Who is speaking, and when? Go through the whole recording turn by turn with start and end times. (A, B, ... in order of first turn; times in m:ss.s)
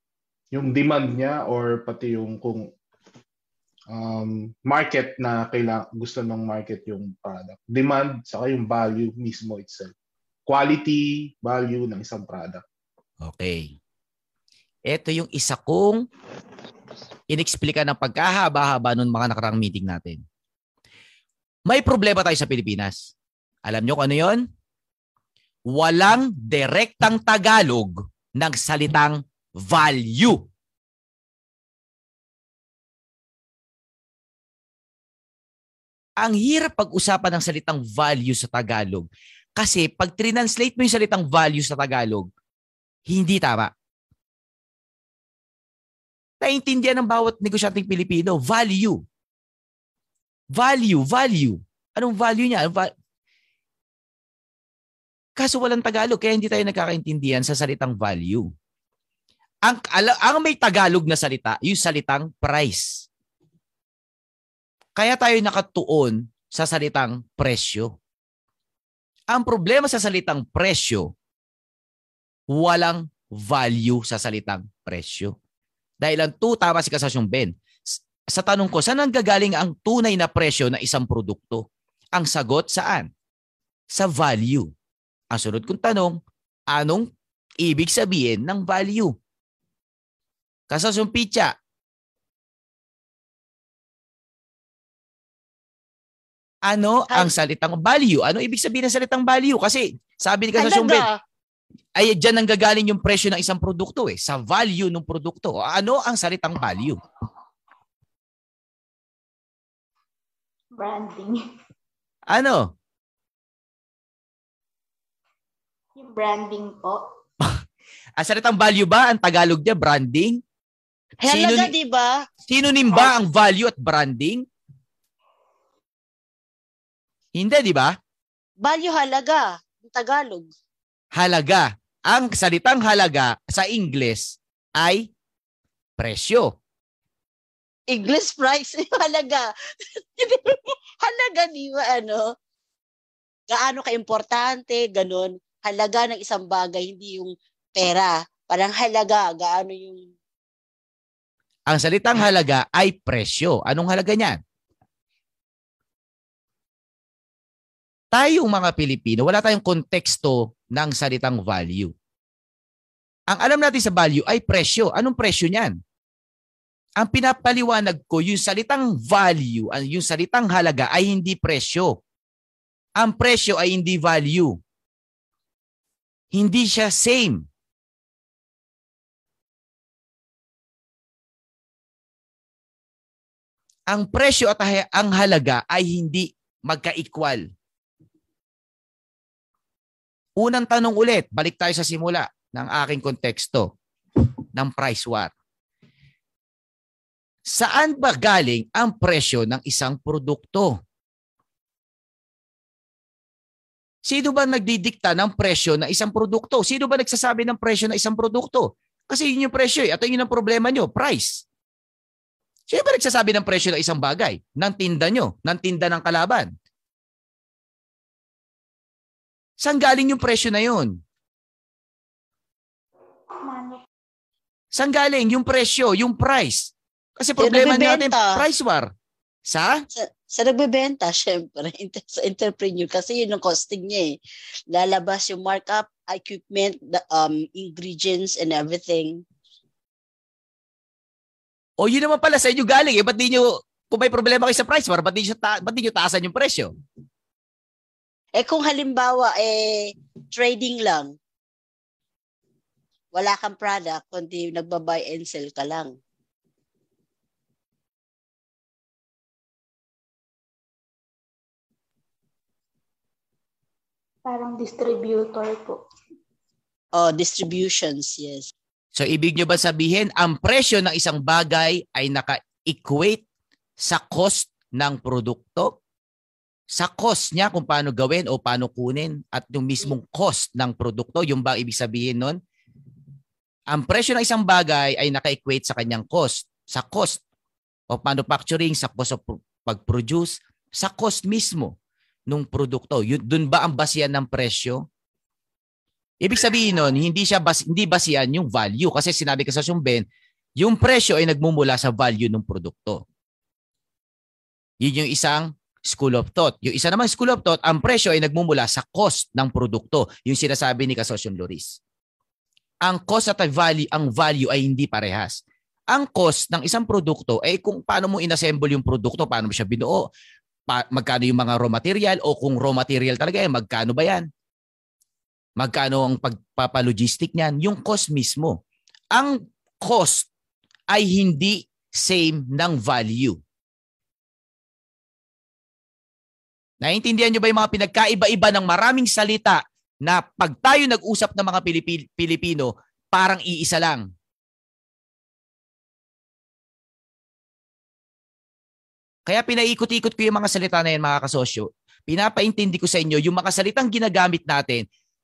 0:00.5-0:02.7 A
0:03.9-0:09.9 A
0:10.5-0:12.6 A
0:13.2-0:13.7 B
0:14.9-0:16.0 B
0:17.3-0:20.2 B
0:21.7-0:23.1 B
0:23.6-0:24.5 B
0:25.7-0:30.5 B
0:36.2-0:42.3 B
0:43.1-0:43.7 B
0:46.4-0:49.0 B
0:50.5-0:52.9 B
0:55.4-0:58.5 B
0:59.6-1:03.1 B
1:05.0-1:07.9 B
1:09.3-1:11.1 B
1:12.5-1:15.3 B
1:16.0-1:23.1 B
1:23.9-1:24.7 B
1:25.3-1:27.1 B
1:27.6-1:29.1 B
1:30.7-1:31.5 B
1:36.7-1:41.1 B
1:40.6-1:41.1 C
1:42.0-1:47.0 B
1:50.7-1:51.4 D
1:52.3-1:52.7 B
1:56.0-1:57.0 D
1:58.2-2:00.4 B
2:01.2-2:02.2 C
2:01.2-2:01.7 B
2:02.5-2:04.4 B
2:07.3-2:08.0 B
2:08.6-2:10.5 C
2:11.2-2:15.1 B
2:16.0-2:16.6 B
2:17.9-2:22.3 C
2:23.5-2:30.1 C
2:31.7-2:34.4 B
2:38.1-2:41.9 B
2:43.3-2:45.8 B
2:47.0-2:52.0 B
2:53.0-2:54.6 B
2:56.3-2:57.4 B
3:03.9-3:07.5 B
3:10.4-3:13.7 B
3:14.5-3:15.3 B
3:17.5-3:20.8 B
3:24.0-3:31.4 B
3:32.7-3:36.5 B
3:39.6-3:41.0 B
3:43.4-3:43.8 D
3:44.7-3:48.9 B
3:47.4-3:48.4 C
3:49.4-3:49.8 B
3:49.9-3:54.2 C
3:54.7-3:59.2 C
4:01.8-4:06.7 B
4:08.3-4:11.2 C
4:13.1-4:16.0 C
4:24.2-4:25.8 D
4:27.0-4:28.5 C
4:28.9-4:33.2 B
4:33.8-4:35.8 B
4:36.7-4:42.4 B
4:43.7-4:47.2 B
4:47.9-4:51.7 B
4:52.3-4:54.8 B
4:56.2-5:00.0 B
5:00.6-5:03.0 B
5:04.8-5:11.8 B
5:12.8-5:20.1 B
5:20.7-5:24.3 B
5:25.6-5:28.6 B
5:29.1-5:30.3 B
5:30.9-5:33.4 B
5:36.8-5:44.1 B
5:49.3-5:54.8 B